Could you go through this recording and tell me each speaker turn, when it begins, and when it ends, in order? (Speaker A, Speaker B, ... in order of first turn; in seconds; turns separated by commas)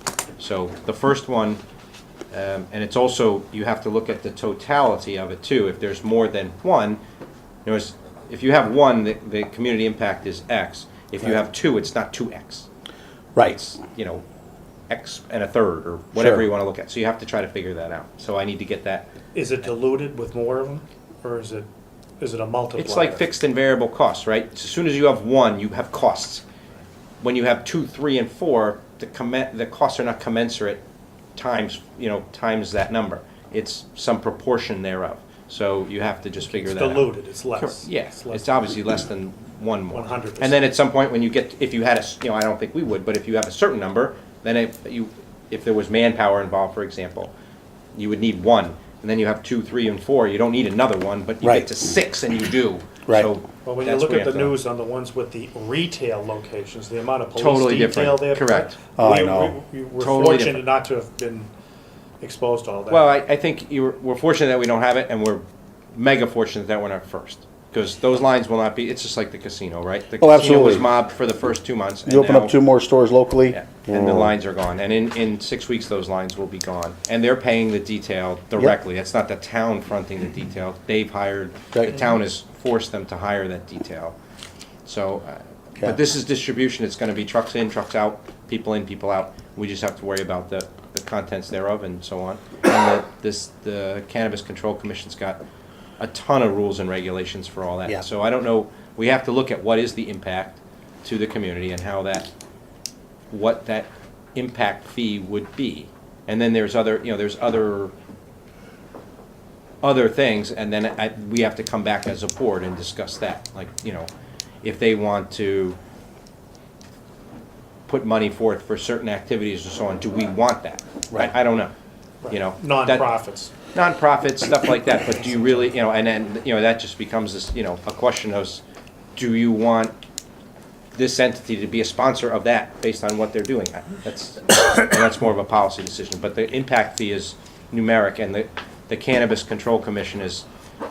Speaker A: 0.4-1.6, Speaker A: 2.3-7.0, Speaker A: 7.6-12.7, Speaker B: 13.3-13.6, Speaker A: 13.4-14.2, Speaker A: 14.9-19.1, Speaker B: 16.2-16.4, Speaker C: 19.3-21.7, Speaker C: 22.2-23.2, Speaker A: 22.8-26.4, Speaker A: 27.2-30.8, Speaker A: 31.4-47.3, Speaker C: 36.5-38.6, Speaker C: 39.9-40.6, Speaker A: 48.0-54.5, Speaker B: 51.4-51.7, Speaker C: 53.6-61.5, Speaker A: 57.4-58.8, Speaker B: 59.0-59.5, Speaker A: 60.0-60.6, Speaker C: 62.2-63.1, Speaker A: 62.9-72.6, Speaker B: 70.2-70.9, Speaker B: 72.1-74.3, Speaker A: 73.5-84.2, Speaker A: 84.8-95.4, Speaker A: 96.0-102.3, Speaker A: 103.3-107.9, Speaker A: 109.8-114.1, Speaker A: 114.6-115.8, Speaker A: 117.9-121.7, Speaker C: 122.2-123.5, Speaker A: 122.3-123.1, Speaker A: 123.7-128.6, Speaker A: 129.2-129.9, Speaker A: 130.9-140.4